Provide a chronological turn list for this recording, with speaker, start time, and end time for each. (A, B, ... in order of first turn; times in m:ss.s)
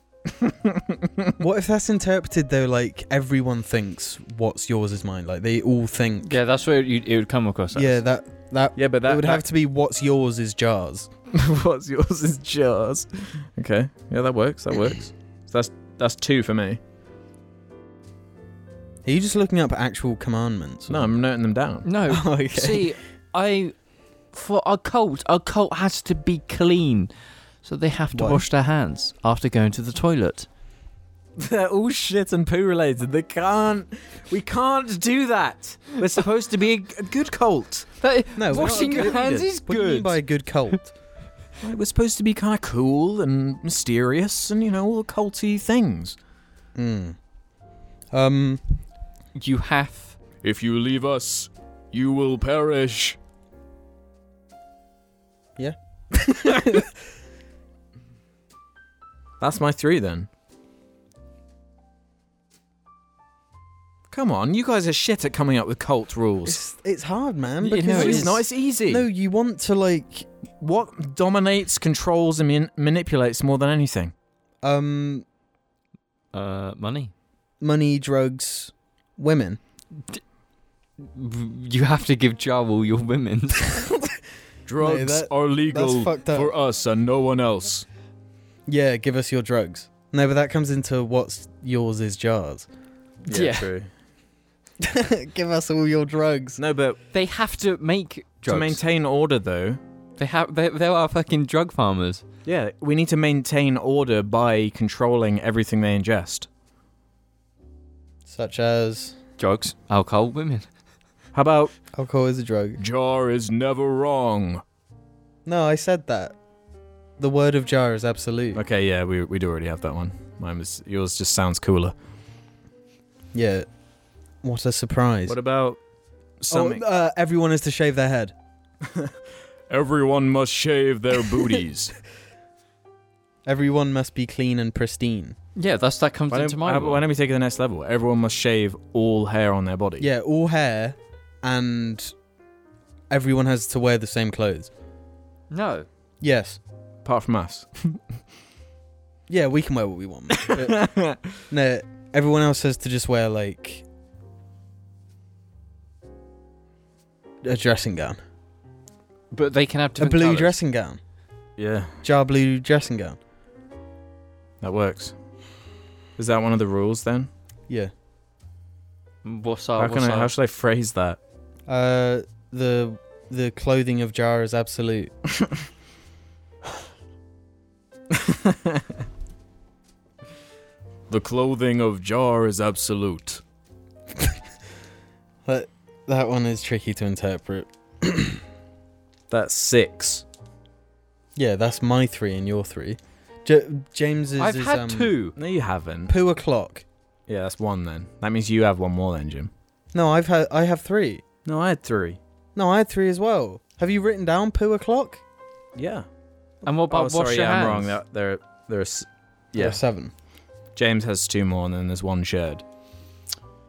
0:00.3-0:01.4 A
0:01.4-0:06.4 B
0:06.2-0:08.0 C
0:07.8-0:11.1 B
0:08.8-0:09.4 A
0:11.3-0:16.8 A
0:19.1-0:21.1 B
0:20.9-0:21.9 A
0:21.8-0:23.7 C
0:22.1-0:22.9 B
0:24.3-0:27.1 C
0:27.6-0:30.5 C
0:28.1-0:28.4 B
0:31.4-0:37.9 A
0:38.0-0:40.2 C
0:38.4-0:40.9 B
0:38.5-0:39.5 A
0:41.6-0:46.2 A
0:46.8-0:47.2 B
0:48.1-0:48.6 B
0:49.4-0:50.2 C
0:50.4-0:53.2 A
0:55.6-0:56.9 B
0:59.4-1:00.3 A
1:04.1-1:06.6 A
1:06.5-1:10.3 B
1:07.6-1:08.4 C
1:07.8-1:09.1 A
1:10.6-1:14.1 A
1:14.6-1:15.2 B
1:16.3-1:17.1 C
1:17.6-1:19.6 B
1:21.0-1:23.8 C
1:24.7-1:27.9 A
1:24.8-1:26.5 B
1:28.7-1:32.7 B
1:33.2-1:33.9 A
1:33.3-1:33.7 C
1:34.8-1:36.6 B
1:36.6-1:37.0 A
1:37.1-1:38.8 C
1:38.5-1:39.8 A
1:40.2-1:42.2 C
1:42.4-1:46.5 A
1:48.3-1:49.2 B
1:49.4-1:50.7 C
1:51.3-1:51.7 A
1:51.9-1:52.8 B
1:52.8-1:54.6 A
1:55.5-1:56.4 B
1:57.2-1:58.6 B
1:58.5-2:02.0 A
2:03.3-2:03.7 B
2:04.4-2:05.4 B
2:05.3-2:05.8 A
2:06.4-2:06.8 A
2:06.5-2:08.3 B
2:08.8-2:09.1 A
2:09.7-2:12.0 A
2:13.5-2:15.4 B
2:15.6-2:17.1 C
2:16.3-2:20.1 A
2:20.0-2:22.1 B
2:23.1-2:24.7 B
2:25.5-2:25.9 C
2:26.2-2:26.6 B
2:27.0-2:28.0 A
2:29.3-2:33.8 B
2:30.4-2:31.3 A
2:37.4-2:38.2 B
2:39.3-2:40.6 C
2:40.0-2:41.0 B
2:41.6-2:42.0 A
2:42.0-2:43.2 B
2:44.6-2:45.1 A
2:46.2-2:47.3 A
2:49.2-2:50.3 C
2:49.8-2:51.2 A
2:51.7-2:55.1 B
2:58.1-2:58.9 A
3:01.1-3:03.4 A
3:05.5-3:08.4 B
3:09.3-3:10.2 A
3:11.4-3:15.1 B
3:14.4-3:15.4 C
3:15.4-3:16.1 A
3:16.1-3:16.8 B
3:17.3-3:19.5 A
3:19.9-3:21.2 B
3:21.4-3:22.2 A
3:22.6-3:25.2 B
3:25.8-3:26.1 A
3:26.6-3:28.0 C
3:26.9-3:29.8 A
3:29.6-3:30.1 B
3:30.8-3:32.6 A